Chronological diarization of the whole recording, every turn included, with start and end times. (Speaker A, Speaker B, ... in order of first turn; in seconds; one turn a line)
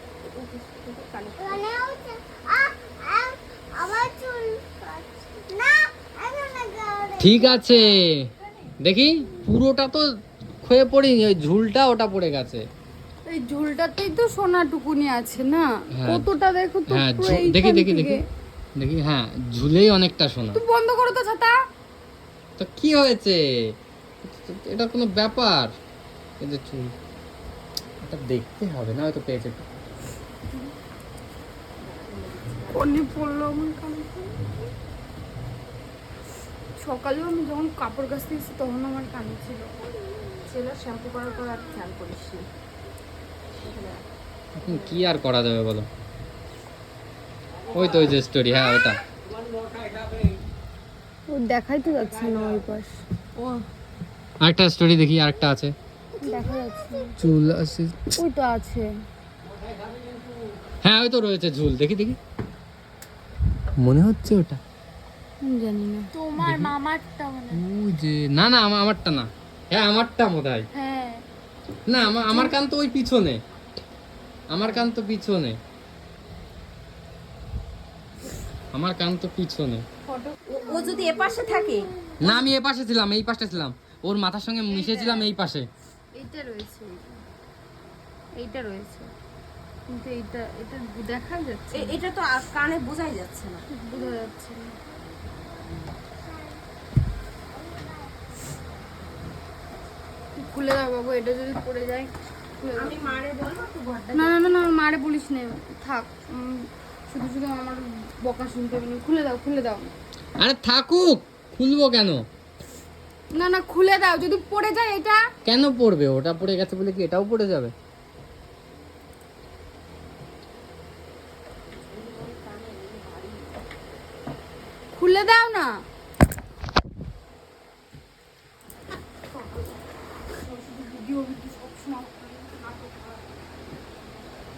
Speaker A: 0.2-1.8
Speaker B: 1.4-7.7
Speaker C: 7.2-8.3
Speaker C: 8.8-12.7
Speaker D: 13.3-18.2
Speaker C: 15.9-16.3
Speaker C: 16.9-18.2
Speaker C: 18.8-20.6
Speaker D: 20.5-21.6
Speaker C: 22.6-23.4
Speaker C: 24.2-25.7
Speaker C: 26.4-26.9
Speaker C: 28.0-29.6
Speaker A: 31.8-32.9
Speaker D: 32.7-34.5
Speaker D: 36.8-39.7
Speaker A: 40.4-42.5
Speaker A: 43.5-44.1
Speaker C: 44.5-45.9
Speaker A: 44.6-45.1
Speaker C: 47.7-49.0
Speaker A: 47.7-48.1
Speaker D: 51.3-53.0
Speaker A: 53.4-53.6
Speaker C: 54.4-55.7
Speaker B: 56.2-57.1
Speaker D: 56.2-57.2
Speaker C: 57.2-58.1
Speaker D: 58.1-58.9
Speaker C: 60.8-62.2
Speaker C: 63.8-64.6
Speaker D: 65.4-67.6
Speaker C: 66.4-66.7
Speaker C: 67.5-70.7
Speaker D: 70.7-71.2
Speaker C: 71.9-73.4
Speaker D: 72.0-72.6
Speaker C: 74.5-75.6
Speaker A: 74.6-74.9
Speaker C: 78.7-79.8
Speaker A: 80.3-81.9
Speaker C: 82.2-85.7
Speaker D: 84.7-85.3
Speaker D: 86.1-87.2
Speaker D: 88.3-89.1
Speaker D: 89.9-92.0
Speaker A: 91.7-93.7
Speaker D: 93.7-94.8
Speaker B: 97.6-98.1
Speaker D: 100.3-103.2
Speaker A: 102.7-104.6
Speaker D: 104.1-109.9
Speaker C: 110.4-112.2
Speaker D: 113.3-115.3
Speaker C: 115.4-117.7
Speaker A: 121.7-123.6
Speaker D: 125.0-125.8
Speaker D: 130.3-133.2